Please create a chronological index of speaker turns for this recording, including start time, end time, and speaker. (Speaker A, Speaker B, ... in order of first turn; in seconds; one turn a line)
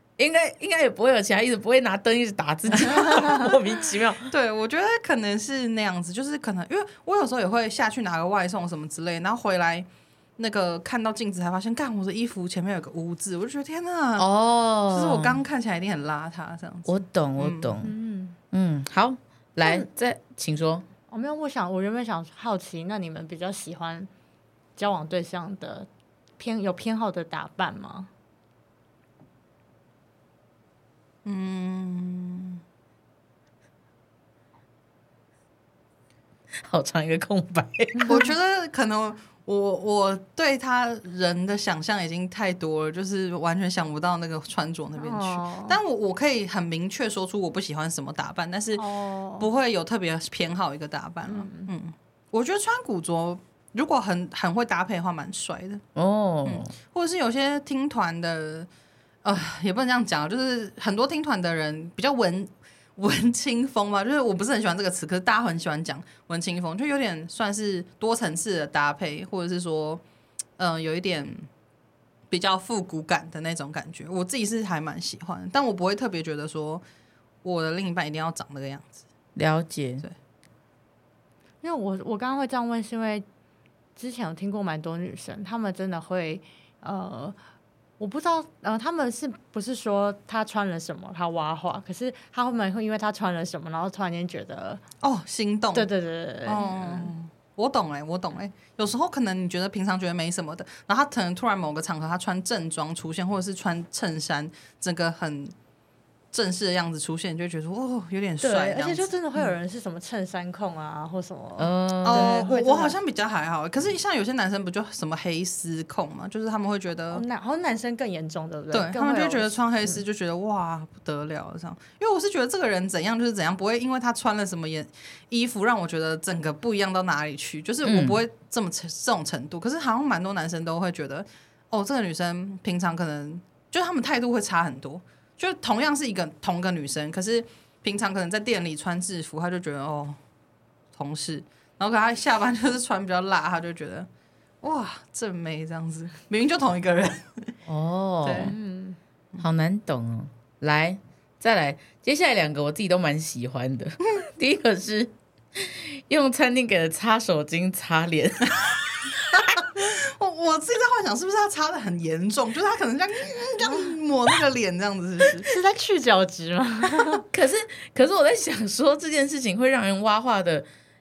Speaker A: 0.2-4.3
Speaker B: 2.9-3.4
Speaker C: 4.3-9.9
Speaker C: 10.4-14.3
Speaker A: 14.2-15.4
Speaker C: 14.9-17.7
Speaker A: 16.9-17.9
Speaker B: 17.8-18.4
Speaker A: 18.5-20.8
Speaker B: 21.1-24.1
Speaker B: 24.8-25.9
Speaker B: 26.4-28.1
Speaker C: 31.2-32.6
Speaker A: 36.6-38.2
Speaker B: 38.0-38.3
Speaker C: 38.1-48.8
Speaker B: 45.0-45.8
Speaker B: 48.8-49.5
Speaker C: 49.4-55.8
Speaker B: 51.3-51.7
Speaker A: 55.9-56.7
Speaker C: 56.4-58.7
Speaker C: 59.2-70.0
Speaker C: 70.6-71.5
Speaker C: 72.3-76.8
Speaker C: 77.4-79.0
Speaker A: 79.3-80.0
Speaker B: 81.6-83.2
Speaker B: 84.0-87.4
Speaker B: 88.0-94.8
Speaker C: 95.0-95.9
Speaker B: 95.7-97.1
Speaker C: 96.5-105.5
Speaker C: 106.3-109.5
Speaker B: 108.4-113.0
Speaker A: 111.6-112.4
Speaker C: 112.0-117.2
Speaker B: 117.1-120.0
Speaker C: 118.7-140.2
Speaker A: 127.8-128.2
Speaker C: 140.9-144.1
Speaker C: 144.6-147.5
Speaker A: 147.7-148.5
Speaker C: 148.2-148.5
Speaker B: 148.4-149.0
Speaker A: 149.4-159.4
Speaker C: 159.3-165.5
Speaker B: 165.4-167.2
Speaker A: 167.2-170.7